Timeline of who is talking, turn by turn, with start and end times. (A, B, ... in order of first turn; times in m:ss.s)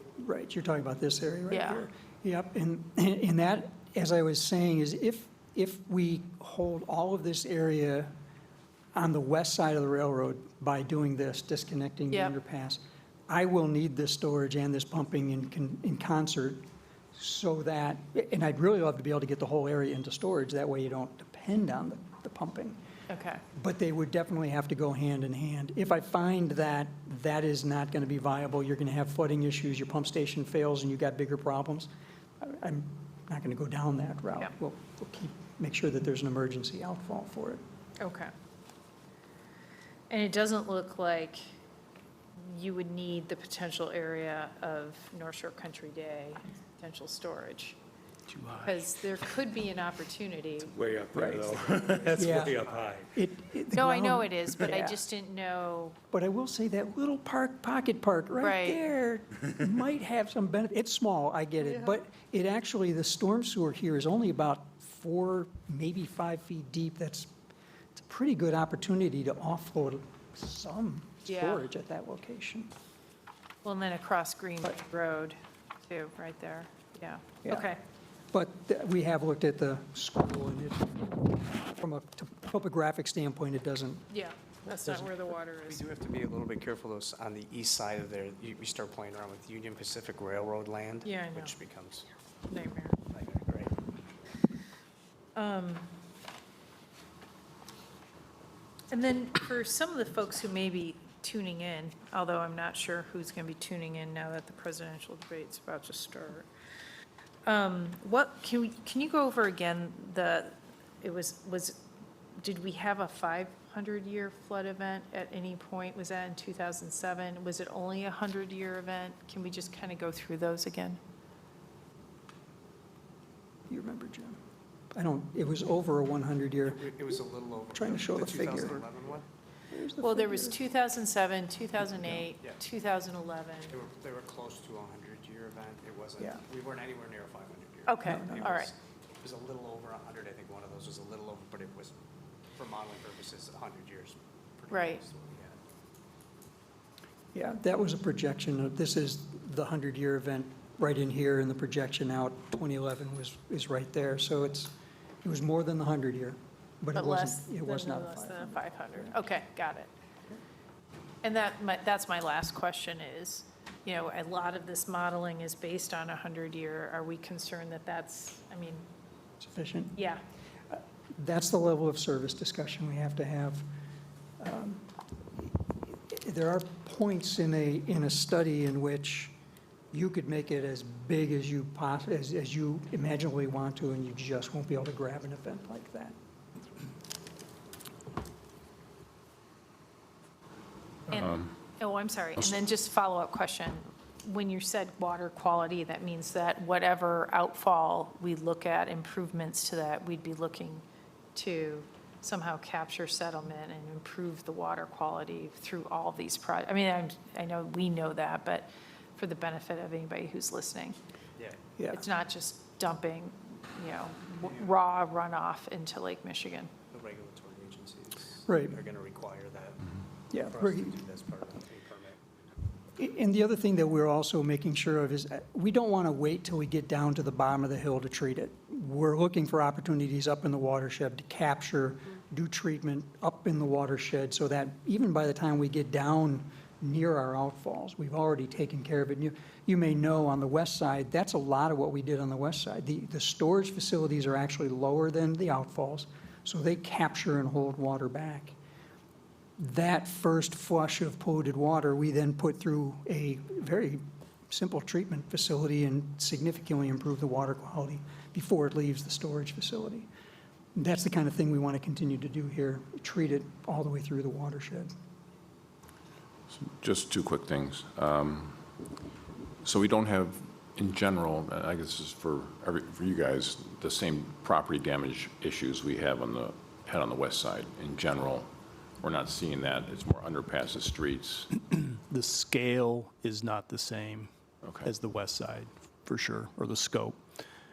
0:00.2-0:08.1 A
0:01.5-0:01.9 B
0:09.0-0:22.8 A
0:23.1-0:23.4 B
0:23.6-0:37.6 A
0:38.0-0:38.3 B
0:40.1-0:41.4 B
0:42.4-0:47.8 B
0:48.3-0:48.8 C
0:48.6-0:50.7 B
0:50.7-0:53.1 D
0:51.2-0:51.4 A
0:51.7-0:52.6 E
0:52.1-0:55.0 A
0:53.7-0:56.0 B
0:56.1-1:07.3 A
0:58.4-0:58.8 B
1:08.0-1:12.7 A
1:11.3-1:11.7 B
1:13.6-1:17.8 B
1:18.3-1:24.1 A
1:24.1-1:25.8 B
1:24.7-1:25.3 A
1:25.7-1:32.1 E
1:31.0-1:31.5 B
1:32.5-1:33.0 B
1:33.1-1:33.8 E
1:35.4-1:35.9 B
1:38.9-1:46.5 B
1:47.5-1:51.8 B
1:52.4-2:01.0 B
2:03.7-2:04.4 A
2:05.0-2:07.1 A
2:06.7-2:09.3 E
2:07.7-2:08.8 A
2:09.7-2:10.6 A
2:10.0-2:13.8 B
2:11.9-2:12.2 A
2:13.7-2:22.0 E
2:17.9-2:18.7 B
2:18.0-2:18.4 A
2:22.5-2:25.6 E
2:24.7-2:25.0 B
2:27.3-2:39.2 A
2:36.9-2:39.9 B
2:41.2-2:48.8 B
2:49.4-2:50.0 A
2:50.0-2:50.2 B
2:51.2-2:53.7 A
2:54.4-2:54.9 A
2:55.5-2:59.3 A
2:59.9-3:06.2 A
3:11.1-3:20.8 B
3:21.4-3:31.0 B
3:31.8-3:32.0 A
3:31.9-3:36.7 B
3:36.9-3:42.2 E
3:38.5-3:38.8 A
3:40.3-3:41.0 A
3:43.0-4:08.6 A
4:09.6-4:20.1 A
4:20.8-4:24.9 A
4:26.5-4:28.6 F
4:29.6-4:38.5 F
4:39.0-4:41.5 F
4:41.7-4:44.3 C
4:44.6-4:44.9 F
4:44.8-4:47.2 C